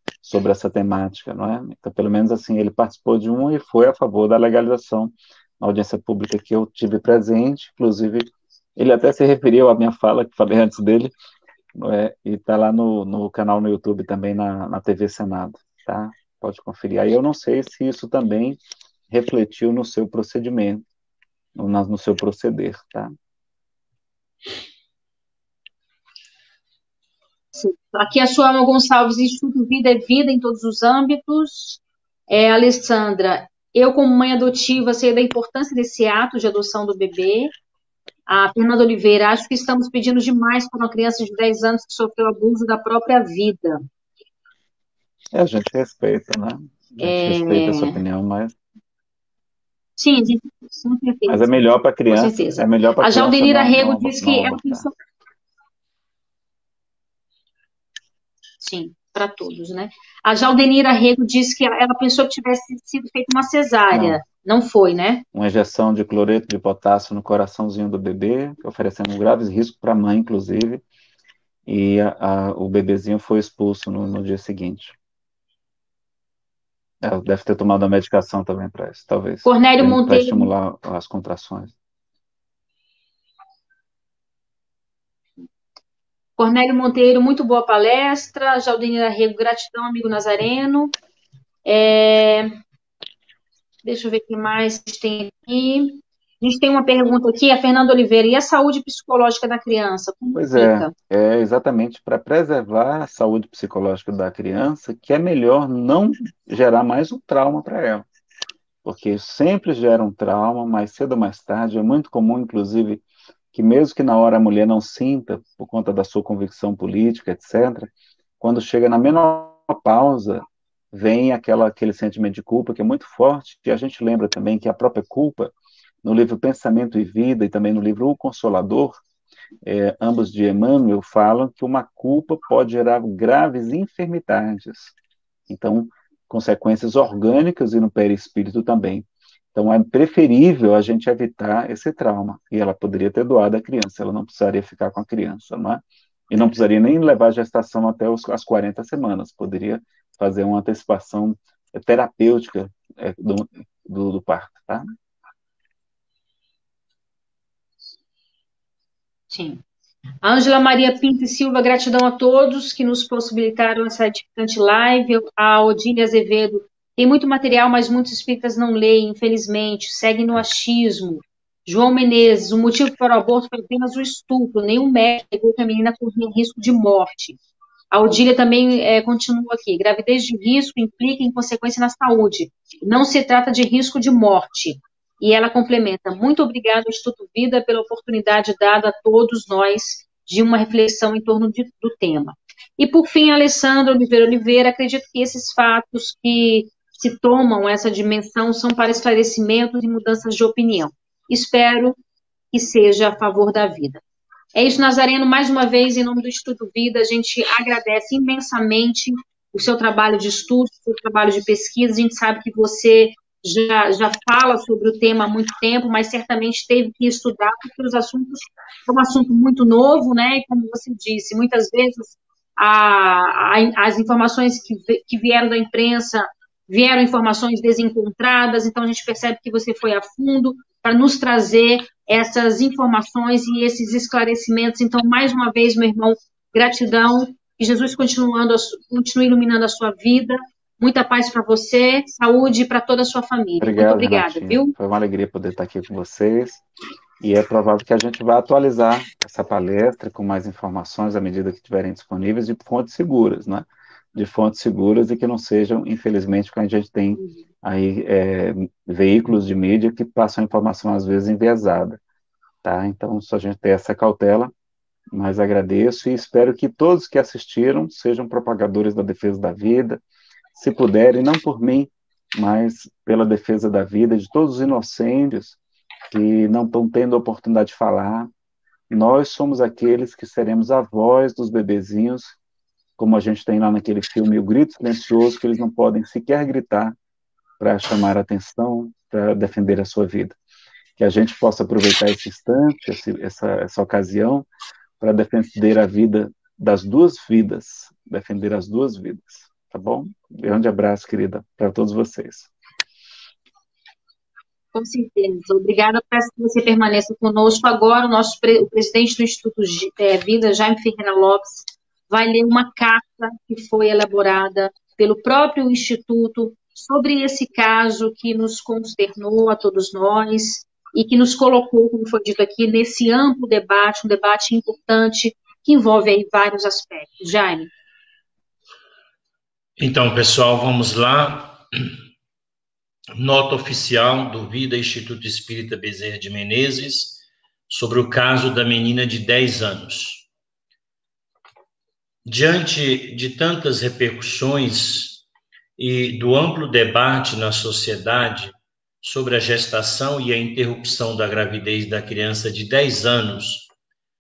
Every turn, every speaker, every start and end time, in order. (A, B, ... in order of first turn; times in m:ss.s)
0:00.2-0:11.1 A
0:11.8-0:20.8 A
0:21.6-0:23.1 A
0:27.5-0:37.5 B
0:38.3-0:43.8 B
0:45.3-0:48.6 A
0:47.0-0:48.0 B
0:50.0-0:54.9 B
0:51.3-0:54.9 A
0:58.6-1:05.2 B
1:03.9-1:04.2 A
1:05.3-1:10.8 A
1:11.7-1:15.0 A
1:17.0-1:21.7 A
1:19.4-1:20.5 B
1:26.4-1:30.9 B
1:31.6-1:32.5 B
1:33.8-1:40.9 B
1:40.4-1:48.1 A
1:48.8-2:09.0 A
2:09.6-2:15.0 A
2:15.5-2:34.9 A
2:39.3-2:39.6 B
2:40.2-2:57.4 B
2:57.9-3:22.0 B
3:22.5-3:24.0 B
3:24.5-4:04.7 B
4:03.6-4:06.6 A
4:07.2-4:22.0 A
4:22.6-4:24.5 A
4:25.1-4:30.0 A
4:30.6-4:35.6 A
4:36.1-4:38.3 A
4:38.9-4:42.4 A
4:43.0-4:47.0 A
4:47.6-4:50.4 A
4:51.0-4:54.5 A
4:55.0-5:02.5 A
5:04.7-5:27.7 B
5:29.8-5:32.0 C
5:33.2-5:40.3 C
5:42.2-5:45.2 C
5:45.8-5:53.7 C